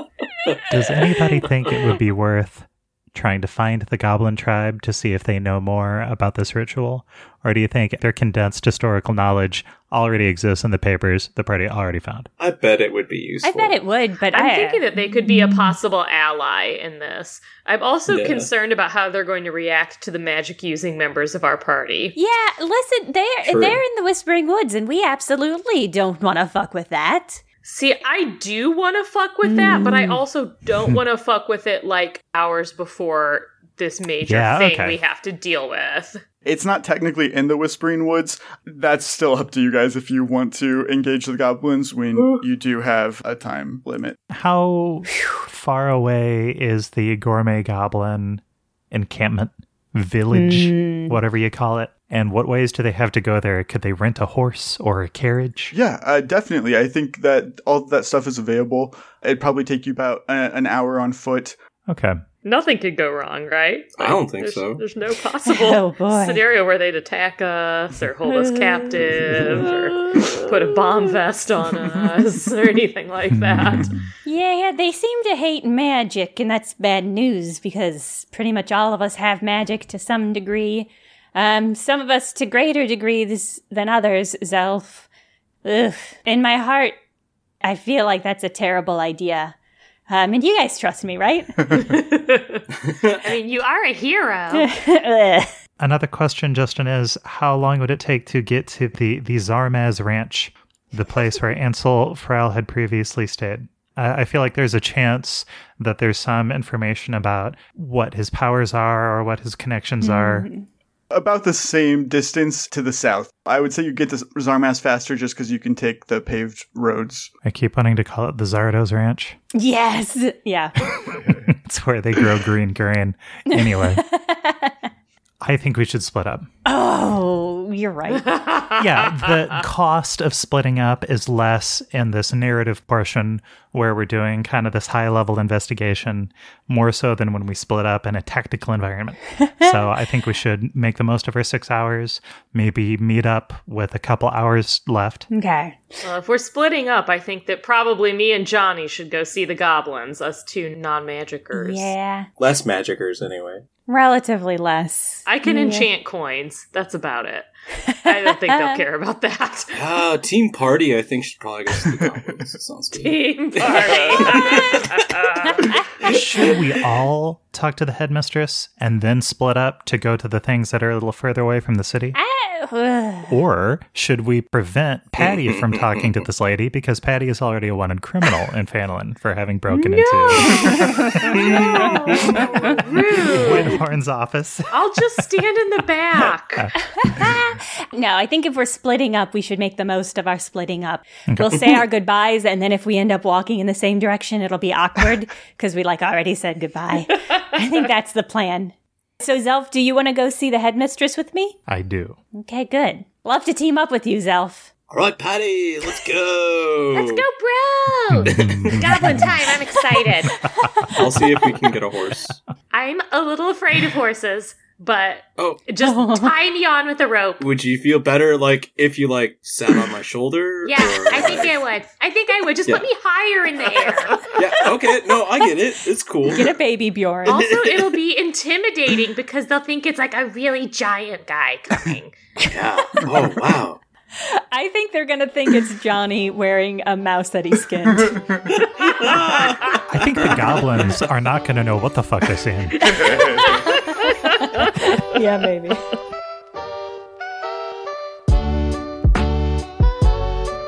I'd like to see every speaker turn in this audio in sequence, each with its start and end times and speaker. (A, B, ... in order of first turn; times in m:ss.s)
0:00.4-0:01.7 A
0:00.7-0:12.3 B
0:12.4-0:13.8 A
0:13.4-0:15.7 C
0:14.3-0:22.2 D
0:18.1-0:18.5 A
0:22.2-0:27.4 C
0:23.5-0:23.8 A
0:27.6-0:36.2 D
0:29.4-0:30.2 C
0:34.3-0:35.0 B
0:36.4-0:44.2 E
0:44.3-0:55.7 B
0:50.3-0:51.2 C
0:55.7-1:01.6 E
1:01.9-1:02.2 B
1:02.4-1:13.9 D
1:04.0-1:04.8 A
1:05.5-1:06.4 C
1:08.3-1:10.5 C
1:13.3-1:14.1 B
1:14.2-1:25.1 C
1:25.6-1:27.0 C
1:27.6-1:29.6 C
1:30.1-1:31.9 C
1:31.7-1:34.7 D
1:34.5-1:35.5 C
1:35.8-1:50.5 B
1:50.0-1:50.7 C
1:51.1-1:57.3 E
1:57.4-1:59.4 B
1:59.6-2:00.8 C
2:00.9-2:04.0 B
2:03.5-2:04.9 C
2:05.4-2:06.5 B
2:06.6-2:08.3 C
2:08.2-2:09.2 D
2:08.8-2:25.3 B
2:19.6-2:19.9 C
2:25.3-2:26.0 C
2:26.0-2:31.9 D
2:31.5-2:32.3 C
2:32.4-2:33.6 A
2:33.9-2:35.9 C
2:35.3-2:39.8 D
2:38.5-2:38.8 C
2:39.7-2:45.1 A
2:42.9-2:45.8 D
2:46.0-2:46.8 A
2:46.0-2:52.2 B
2:52.1-2:53.4 C
2:53.3-3:01.5 B
2:55.2-2:56.2 A
2:59.7-3:03.8 D
3:00.5-3:01.8 C
3:01.2-3:02.7 A
3:02.0-3:02.4 B
3:02.4-3:02.7 C
3:03.2-3:04.8 B
3:04.7-3:06.7 D
3:06.6-3:07.4 B
3:06.9-3:21.6 C
3:11.3-3:11.8 B
3:21.7-3:22.2 B
3:22.3-3:24.7 C
3:24.9-3:27.2 A
3:26.9-3:30.4 D
3:28.1-3:29.3 B
3:28.3-3:29.2 A
3:30.3-3:31.2 B
3:30.6-3:31.0 C
3:30.9-3:32.4 A
3:32.7-3:37.4 D
3:35.4-3:35.6 A
3:35.8-3:36.4 C
3:37.4-3:41.6 A
3:40.6-3:44.3 D
3:44.3-3:46.6 A
3:46.3-3:47.4 C
3:47.3-3:47.9 A
3:47.3-3:52.2 D
3:52.5-3:53.8 A
3:54.2-3:58.3 C
3:58.0-3:58.6 E
3:58.8-3:59.8 A
3:59.9-4:03.4 B
4:03.0-4:03.4 D
4:03.3-4:05.9 C